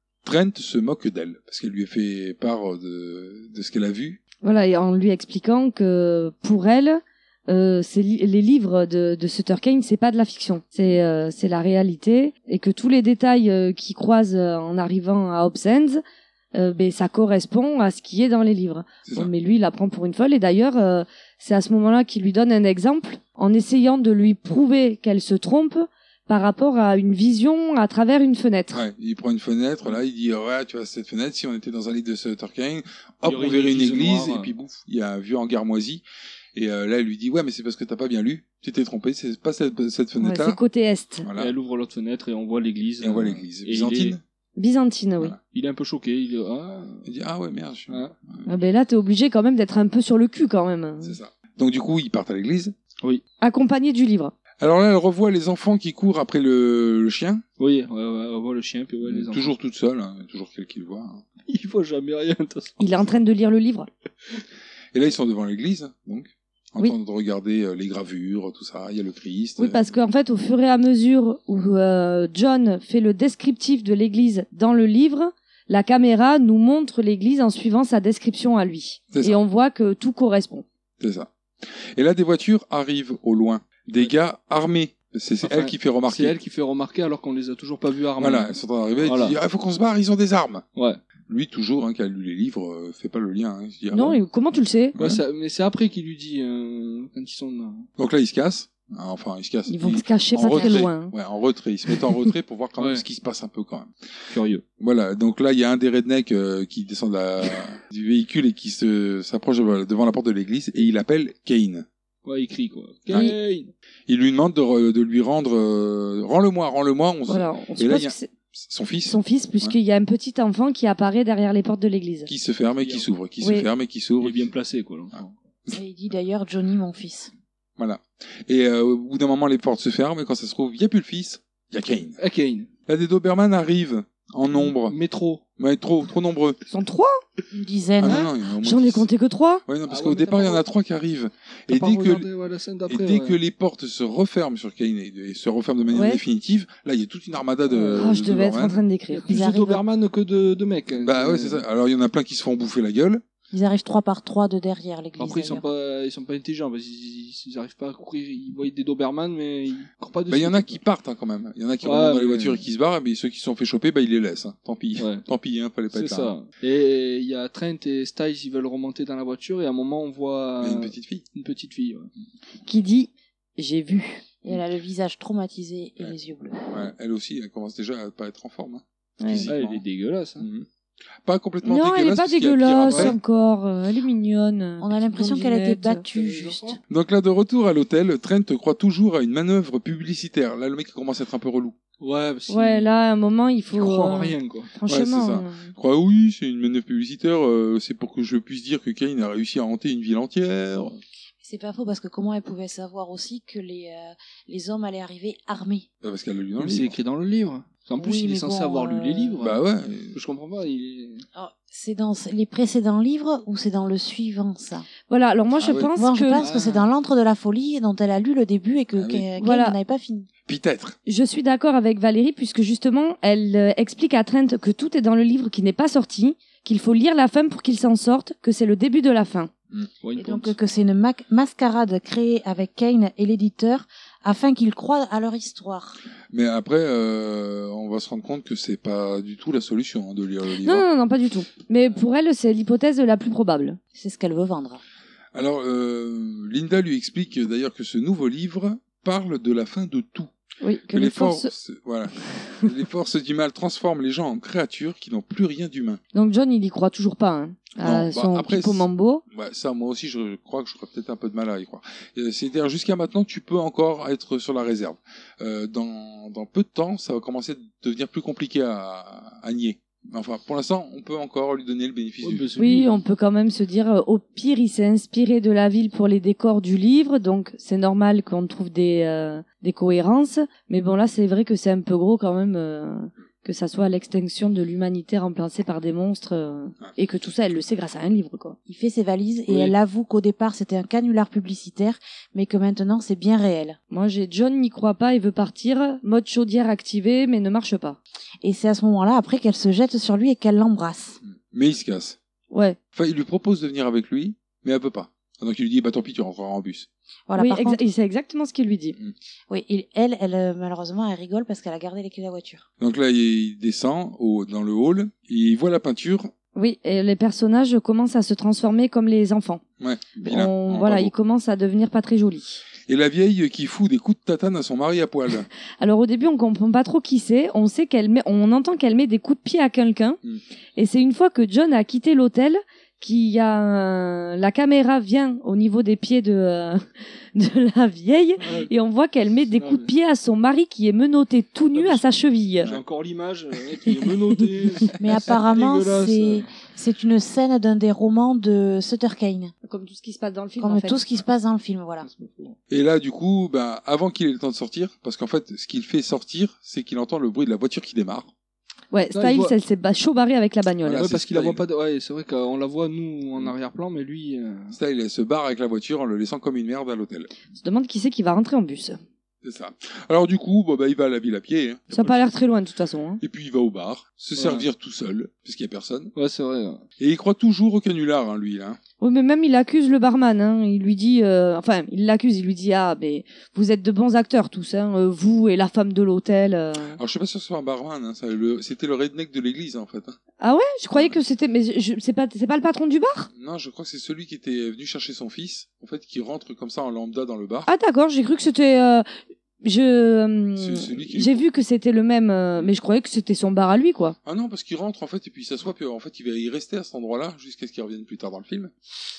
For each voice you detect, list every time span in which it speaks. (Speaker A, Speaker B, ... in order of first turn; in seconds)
Speaker A: 0.2-4.2, 19.1-19.3, 28.7-36.0, 36.5-40.6, 41.2-41.5, 43.0-44.2, 47.0-48.5, 51.0-52.8, 54.6-57.4, 59.0-61.2, 64.9-69.8, 79.1-79.4, 81.0-86.4, 88.2-90.6, 91.3-94.2, 95.0-95.2, 98.0-103.9, 104.8-111.9, 113.1-113.4, 114.1-119.8, 122.3-124.5, 125.1-125.8, 127.8-132.2, 132.9-135.0, 135.6-136.6, 138.0-139.1, 139.7-142.3, 142.9-148.8, 151.0-153.2, 160.3-166.3, 170.6-171.2, 176.7-179.8, 180.4-180.7, 181.2-183.2, 186.9-191.8, 194.9-201.0, 206.0-207.0, 209.4-210.2, 215.6-215.9, 218.9-219.3, 220.5-221.0, 236.3-240.9, 245.3-250.3, 250.9-256.0, 257.8-272.5, 301.2-302.2, 302.9-306.9, 312.8-316.3, 319.8-321.1, 322.9-325.5, 352.7-358.3, 360.8-361.6, 364.7-367.3, 369.4-372.2, 373.2-376.1, 377.0-378.8, 387.0-390.2, 393.3-397.7, 400.6-401.5, 404.2-408.7
Speaker B: 4.4-16.0, 16.5-28.8, 40.2-41.3, 44.6-45.4, 48.5-51.2, 53.4-54.3, 62.8-63.9, 69.6-80.7, 93.9-95.0, 99.7-101.1, 117.3-118.3, 119.1-122.3, 123.4-123.7, 136.7-137.2, 138.6-139.6, 145.9-146.2, 148.0-149.3, 172.7-174.2, 179.2-179.5, 181.6-186.0, 192.5-195.7, 215.1-216.4, 219.4-219.8, 221.1-229.5, 240.6-243.8, 250.6-251.5, 256.1-259.2, 272.6-288.6, 293.9-298.0, 302.5-302.8, 307.4-309.0, 316.6-319.6, 320.2-322.6, 325.8-330.2, 330.8-336.8, 337.4-342.7, 349.6-351.0, 358.9-361.1, 367.5-369.0, 371.9-373.2, 379.0-387.0, 390.4-393.3, 397.7-399.1, 399.6-404.2
Speaker C: 33.2-34.5, 41.4-44.2, 45.5-47.1, 47.9-48.1, 57.6-59.5, 61.5-62.9, 85.4-89.4, 95.0-97.9, 102.8-103.0, 104.3-104.7, 112.2-113.7, 122.8-123.1, 124.2-125.3, 132.2-132.7, 134.5-135.4, 139.9-140.6, 141.7-143.4, 149.1-151.7, 155.2-160.8, 161.8-162.6, 165.0-165.3, 165.9-172.1, 179.5-180.5, 182.9-183.2, 186.1-186.8, 192.0-193.0, 193.7-194.7, 206.6-209.6, 210.1-211.2, 216.4-216.9, 230.0-230.6, 272.2-272.9, 289.5-289.8, 338.4-338.7, 339.6-339.9, 341.7-342.1, 342.6-346.5, 352.0-352.6, 359.1-359.6, 361.0-364.8, 374.4-374.7, 376.2-376.8
Speaker D: 125.7-127.3, 137.5-138.3, 147.7-148.1, 149.3-149.8, 153.5-155.7, 174.4-176.9, 184.8-186.8, 201.4-205.9, 208.0-209.4, 211.3-214.9, 216.0-220.3, 230.2-236.0, 243.9-244.8, 288.7-293.8, 298.4-301.2, 307.3-307.8, 309.5-312.7, 345.0-349.5, 350.6-352.1